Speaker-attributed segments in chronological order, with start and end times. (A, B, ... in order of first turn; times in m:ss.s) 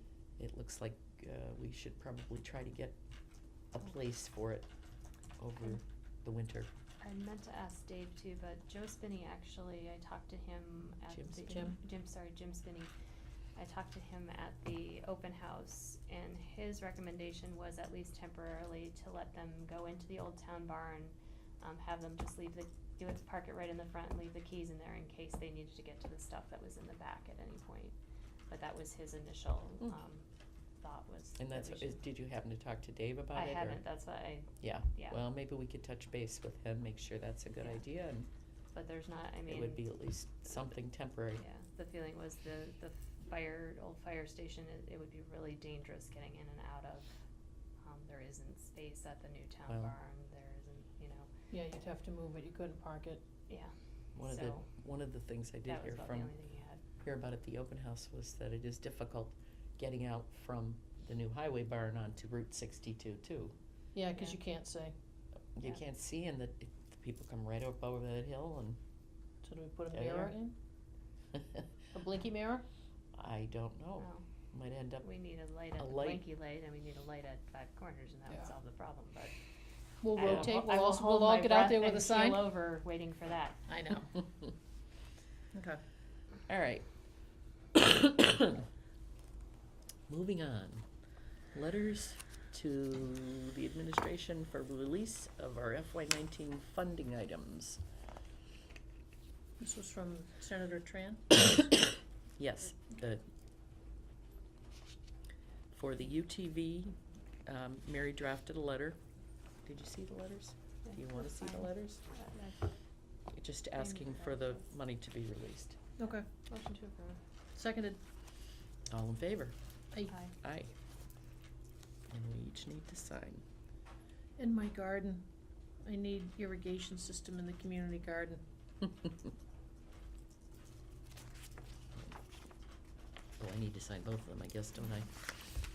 0:00.4-0:03.0 A
0:03.7-0:04.7 A
0:05.4-0:06.7 A
0:07.0-0:12.9 B
0:11.1-0:11.5 A
0:11.5-0:11.8 C
0:13.6-0:28.0 B
0:28.5-0:30.2 B
0:30.8-0:32.0 B
0:31.4-0:33.8 A
0:33.3-0:35.2 B
0:34.6-0:38.3 A
0:37.6-0:37.8 B
0:38.7-0:39.9 B
0:39.5-0:41.4 A
0:41.4-0:47.2 B
0:47.8-0:51.3 B
0:49.7-0:49.9 A
0:51.5-0:53.2 C
0:53.5-0:54.7 B
0:54.2-0:56.3 A
0:55.6-0:56.8 B
0:57.0-1:03.6 A
1:03.9-1:04.9 C
1:05.6-1:08.8 A
1:09.4-1:10.6 C
1:09.9-1:10.3 A
1:11.3-1:11.6 A
1:11.9-1:12.7 C
1:13.1-1:15.1 A
1:14.0-1:14.2 B
1:15.0-1:19.3 B
1:15.8-1:16.2 A
1:20.0-1:22.6 C
1:20.1-1:23.6 B
1:23.7-1:24.1 C
1:25.5-1:25.8 C
1:26.5-1:26.9 A
1:27.8-1:28.7 A
1:30.1-1:30.9 A
1:31.5-1:37.8 A
1:39.6-1:41.7 C
1:42.4-1:43.2 A
1:45.7-1:49.0 A
1:49.6-1:52.0 A
1:50.8-1:52.6 B
1:53.3-1:55.8 A
1:53.8-1:54.6 B
1:56.0-1:56.3 C
1:56.5-1:57.2 B
1:57.6-1:58.0 C
1:58.9-1:59.6 A
2:00.1-2:00.3 B
2:00.4-2:00.7 A
2:02.1-2:03.4 A
2:04.4-2:05.3 C
2:05.8-2:08.4 C
2:13.4-2:15.3 A